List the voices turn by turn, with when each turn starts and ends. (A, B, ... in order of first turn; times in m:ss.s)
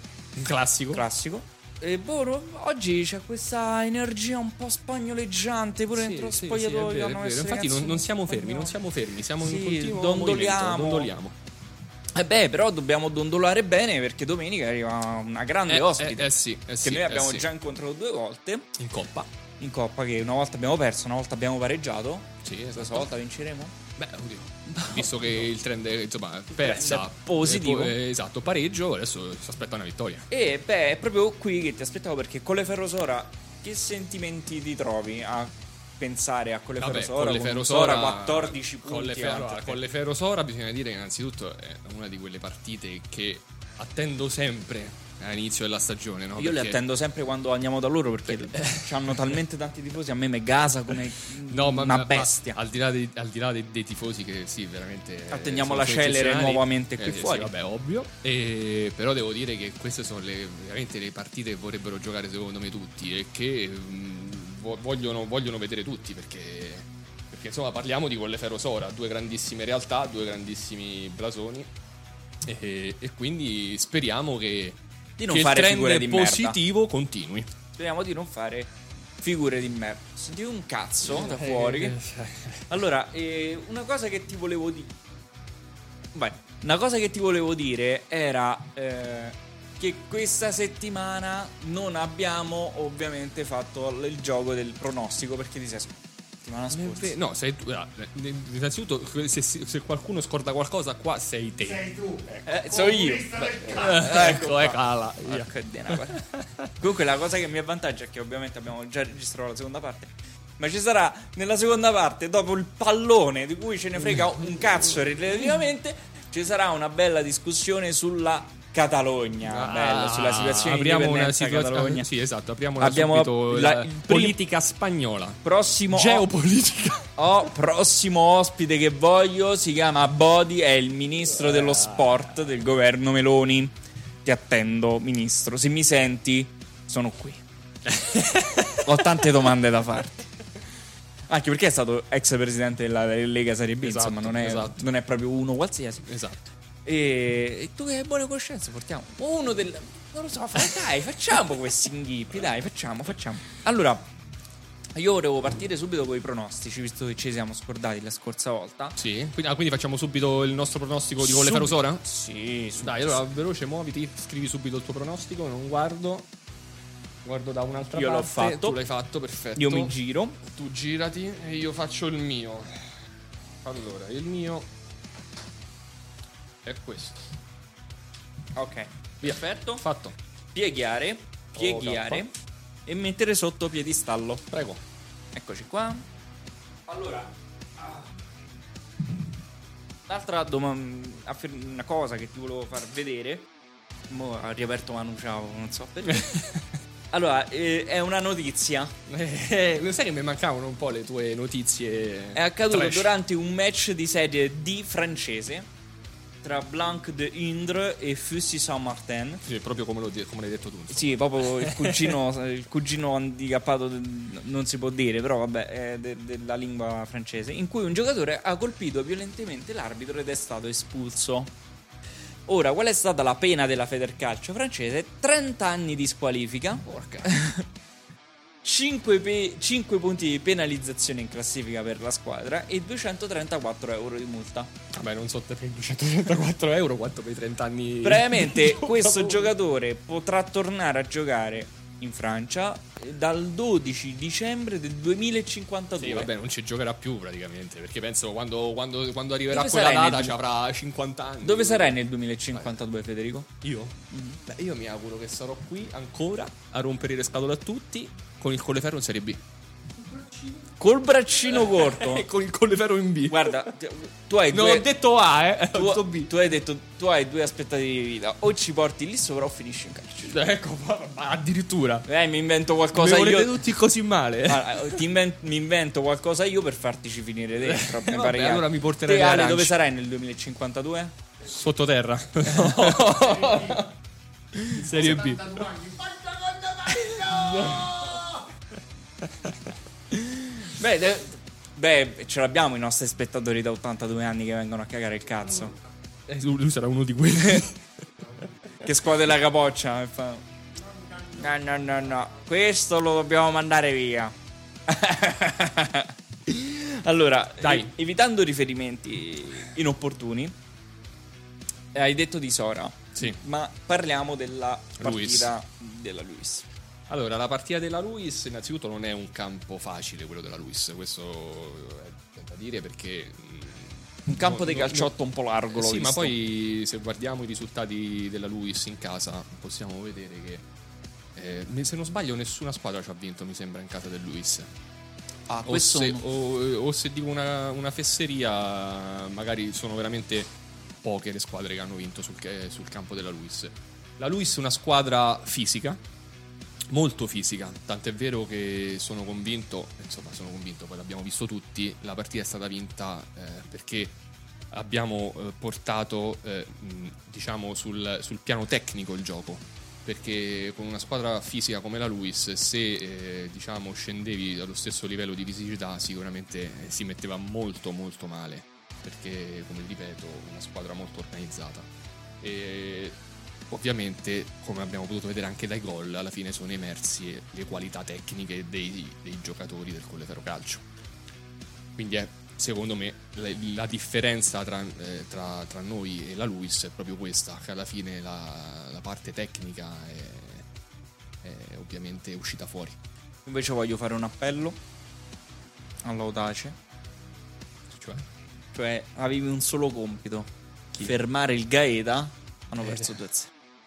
0:00.4-0:01.0 A
0:00.9-0:08.8 B
0:05.9-0:11.4 A
0:09.4-0:11.1 B
0:12.1-0:16.3 B
0:15.7-0:17.5 A
0:16.8-0:18.7 B
0:18.8-0:19.3 A
0:19.6-0:23.8 B
0:22.4-0:23.1 A
0:24.0-0:30.3 A
0:24.7-0:25.5 B
0:26.5-0:28.0 B
0:30.3-0:39.8 B
0:36.8-0:46.8 A
0:46.4-0:52.6 B
0:48.3-0:49.2 A
0:51.5-1:11.7 A
0:55.3-0:57.5 B
1:12.4-1:17.5 A
1:15.2-1:16.6 B
1:17.8-1:22.0 B
1:21.0-1:22.6 A
1:22.7-1:24.9 B
1:26.2-1:37.2 B
1:36.7-1:46.7 A
1:42.4-1:46.2 B
1:46.8-2:02.1 B
1:54.0-1:54.8 A
1:59.5-2:07.1 A
2:02.8-2:04.4 B
2:05.4-2:06.3 B
2:07.2-2:17.4 B
2:11.4-2:12.1 A
2:17.8-2:18.8 A
2:18.8-2:20.2 B
2:21.3-2:26.2 B
2:23.8-2:24.8 A
2:26.1-2:26.4 A
2:26.8-2:34.1 B
2:35.0-2:39.0 B
2:39.0-2:42.0 A
2:41.2-2:43.2 B
2:42.8-2:46.3 A
2:47.2-2:52.9 A
2:47.9-2:48.8 B
2:49.6-2:50.4 B
2:53.6-2:54.7 A
2:56.6-2:57.2 A
2:58.5-2:59.8 B
2:59.2-3:00.2 A
3:00.5-3:02.3 B
3:01.5-3:02.2 A
3:02.9-3:04.5 B
3:04.5-3:04.8 A
3:05.3-3:06.0 B
3:06.9-3:08.1 B
3:10.1-3:13.5 B
3:14.1-3:16.4 B
3:16.2-3:16.6 A
3:17.1-3:18.9 B
3:19.1-3:23.1 A
3:22.3-3:25.7 B
3:26.4-3:29.4 B
3:29.4-3:32.2 A
3:30.9-3:41.5 B
3:42.5-3:47.7 B
3:48.6-3:54.7 B
3:54.9-3:59.5 A
3:58.0-4:06.3 B
4:06.0-4:12.0 A
4:09.5-4:10.4 B
4:11.4-4:13.5 B
4:12.5-4:12.8 A
4:13.6-4:14.0 A
4:14.1-4:14.4 B
4:14.5-4:19.4 A
4:20.8-4:22.2 B
4:21.5-4:23.7 A
4:23.3-4:24.9 B
4:24.5-4:26.3 A
4:25.7-4:30.3 B
4:30.3-4:32.1 A
4:32.1-4:33.7 B
4:32.9-4:35.0 A
4:34.5-4:41.1 B
4:37.6-4:39.8 A
4:41.4-4:43.9 A
4:42.5-4:43.8 B
4:44.5-4:45.3 B
4:44.7-4:46.1 A
4:46.6-4:48.4 B
4:46.8-4:48.3 A
4:50.1-4:55.8 B
4:56.3-4:57.8 A
4:58.8-5:00.4 B
5:01.2-5:04.4 B
5:04.9-5:10.5 B
5:07.6-5:07.9 A
5:11.9-5:16.7 B
5:15.0-5:15.5 A
5:17.1-5:25.1 A
5:24.3-5:26.3 B
5:25.7-5:30.6 A
5:31.4-5:34.7 A
5:35.5-5:36.2 B
5:35.6-5:46.0 A
5:46.9-5:54.2 A
5:54.7-6:11.9 A
6:12.4-6:13.2 A
6:13.7-6:20.8 A
6:22.0-6:30.6 A
6:31.4-6:33.0 A
6:33.5-6:34.8 B
6:36.0-6:36.8 B
6:37.9-6:38.2 A
6:38.7-6:40.5 B
6:41.0-6:43.5 B
6:42.8-6:43.1 A